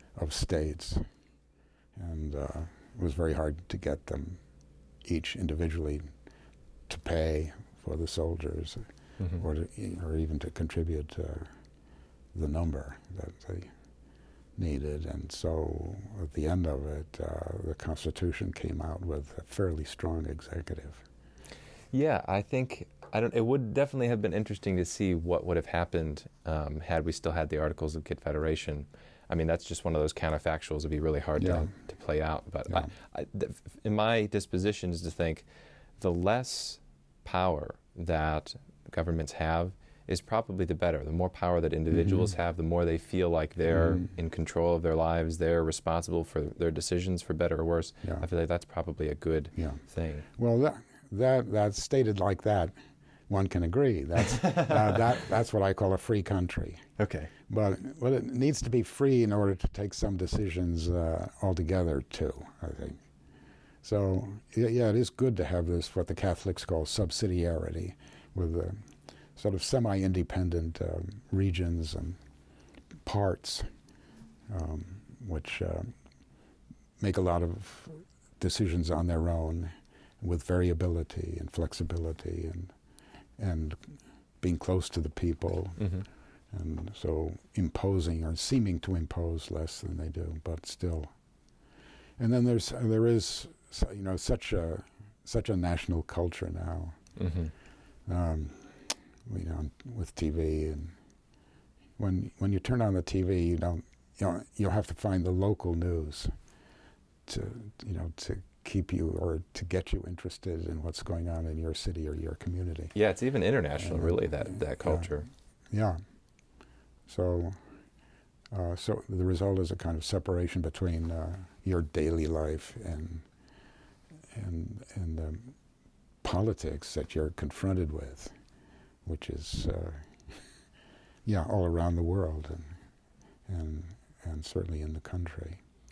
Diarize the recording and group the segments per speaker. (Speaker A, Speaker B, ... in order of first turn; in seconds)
Speaker A: 0.1-1.0, 1.9-4.4, 5.0-6.1, 6.9-8.8, 9.4-11.5, 12.3-13.7, 14.6-21.0, 31.4-31.7, 41.9-42.3, 43.7-44.1, 50.4-52.8, 53.3-56.8, 57.5-63.0, 63.8-68.8, 69.4-72.2, 73.0-73.7, 74.5-75.9, 77.0-82.7, 83.4-83.8, 84.4-85.9, 86.5-91.1, 92.2-97.0, 98.1-101.0, 102.0-106.3, 107.3-112.9, 113.8-115.1, 115.7-116.0, 117.1-117.6, 118.5-123.3, 124.3-125.6, 126.2-128.3, 129.0-130.1, 131.3-132.7, 133.5-135.6
Speaker B: 21.9-35.5, 36.0-50.3, 54.4-54.9, 57.0-57.3, 85.8-86.1, 97.2-97.5, 113.0-115.3